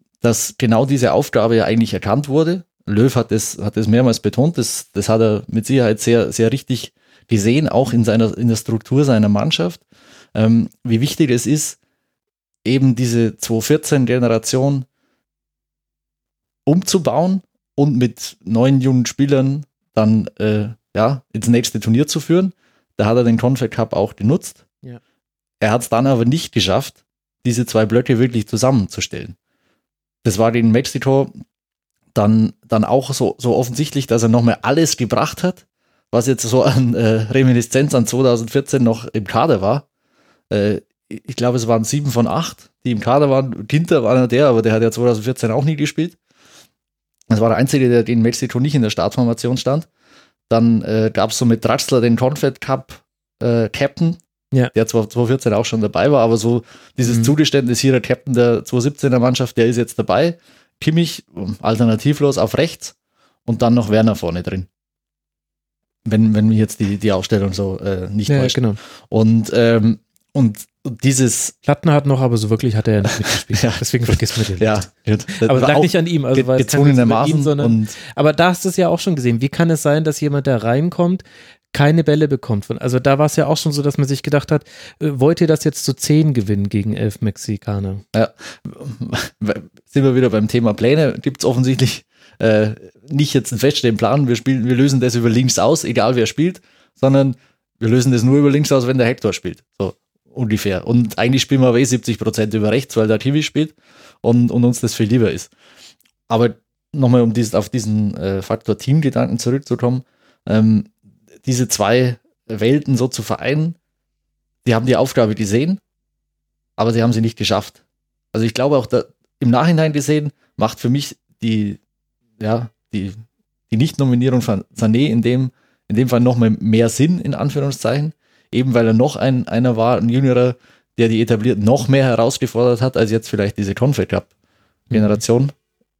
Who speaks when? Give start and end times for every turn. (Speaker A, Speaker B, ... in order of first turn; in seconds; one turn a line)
Speaker A: 0.2-9.8
Speaker A: 10.3-11.8
Speaker A: 12.6-14.8
Speaker A: 16.6-24.6
Speaker A: 25.6-29.4
Speaker A: 30.2-31.3
Speaker A: 32.1-39.8
Speaker A: 40.5-46.2
Speaker A: 47.3-49.9
Speaker A: 50.5-54.2
Speaker A: 54.7-62.9
Speaker B: 57.0-57.3
Speaker A: 63.5-64.7
Speaker A: 66.0-71.5
Speaker B: 68.3-68.8
Speaker B: 71.6-74.8
Speaker A: 73.5-77.9
Speaker B: 75.4-88.0
Speaker A: 88.1-105.5
Speaker A: 106.3-110.9
Speaker A: 111.4-113.8
Speaker A: 114.6-115.8
Speaker A: 116.8-117.8
Speaker A: 118.3-121.8
Speaker A: 122.4-123.2
Speaker A: 123.7-134.3
Speaker B: 134.9-135.2
Speaker A: 134.9-135.5